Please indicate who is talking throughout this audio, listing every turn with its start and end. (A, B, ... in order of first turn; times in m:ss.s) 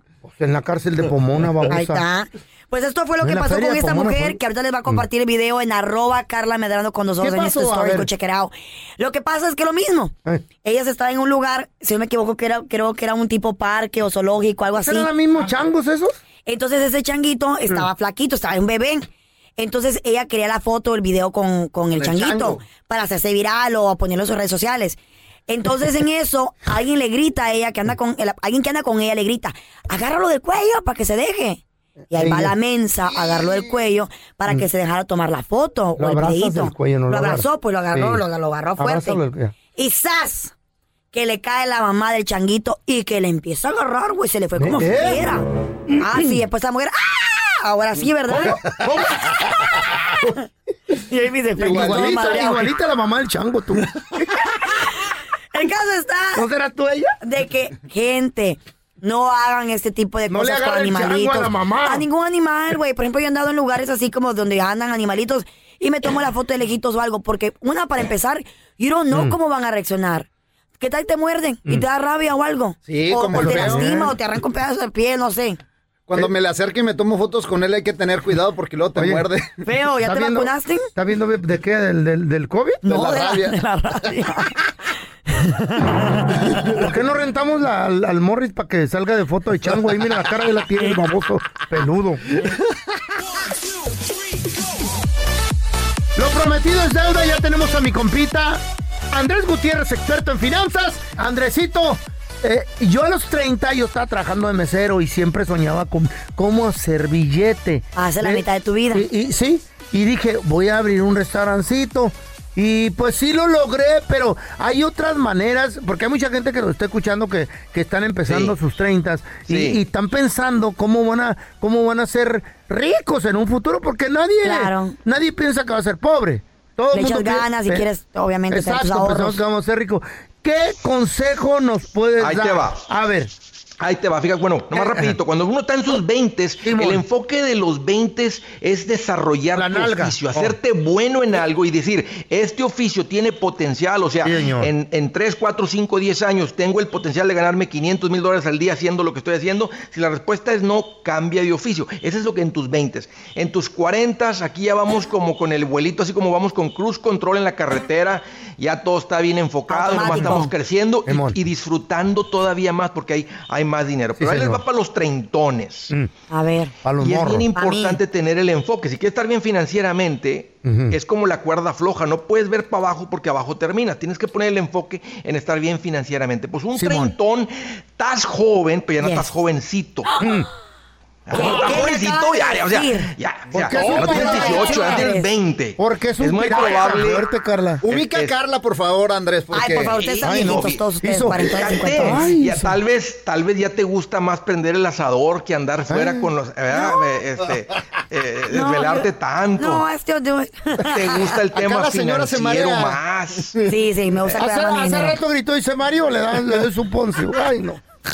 0:00.2-0:02.0 A
0:01.7-0:15.1 B
0:03.2-0:04.4 A
0:07.2-0:08.1 A
0:14.8-0:16.2 A
0:16.4-0:39.2 B
0:21.9-0:22.6 A
0:32.1-0:32.5 A
0:36.0-0:38.2 A
0:38.8-0:39.5 A
0:39.8-0:40.5 B
0:41.1-0:45.4 B
0:44.6-0:45.2 A
0:45.9-0:50.4 B
0:48.3-0:49.3 A
0:51.0-0:52.8 B
0:51.6-0:54.2 A
0:51.6-0:52.4 C
0:55.5-0:56.4 B
0:56.3-0:57.2 A
0:57.2-1:10.3 B
1:00.3-1:02.1 A
1:09.1-1:09.4 A
1:10.8-1:15.6 B
1:12.9-1:14.1 C
1:13.3-1:14.2 A
1:16.1-1:19.5 C
1:19.0-1:19.3 A
1:19.6-1:20.9 B
1:20.0-1:22.9 A
1:22.8-1:24.6 B
1:22.9-1:23.6 C
1:25.3-1:26.7 B
1:26.6-1:32.4 A
1:36.2-2:07.9 A
1:48.0-1:49.0 B
1:58.3-1:58.5 D
1:59.5-1:59.8 D
2:04.4-2:05.0 B
2:06.9-2:09.4 B
2:08.5-2:13.3 A
2:12.2-2:12.8 D
2:13.8-2:45.9 D
2:14.7-2:15.2 A
2:16.6-2:17.0 A
2:19.5-2:20.6 A
2:24.2-2:24.7 A
2:39.7-2:40.5 B
2:40.0-2:40.4 A
2:41.0-2:41.4 A
2:44.2-2:44.6 A
2:46.3-2:46.7 B
2:46.8-2:47.5 A
2:47.0-3:00.1 D
2:47.5-2:48.0 B
2:50.6-2:51.0 A
2:56.8-2:57.2 A
3:00.2-3:00.5 A
3:01.3-3:07.3 D
3:01.3-3:03.1 B
3:03.5-3:05.2 A
3:03.7-3:04.5 C
3:03.8-3:05.3 B
3:05.8-3:07.8 A
3:07.8-3:10.0 C
3:07.9-3:08.3 D
3:09.5-3:12.3 B
3:10.0-3:10.8 D
3:10.2-3:12.8 A
3:11.4-3:19.8 D
3:15.9-3:16.3 A
3:18.5-3:19.0 B
3:19.6-3:21.3 B
3:20.8-3:23.5 D
3:21.6-3:23.0 A
3:23.6-3:25.2 B
3:24.2-3:27.8 A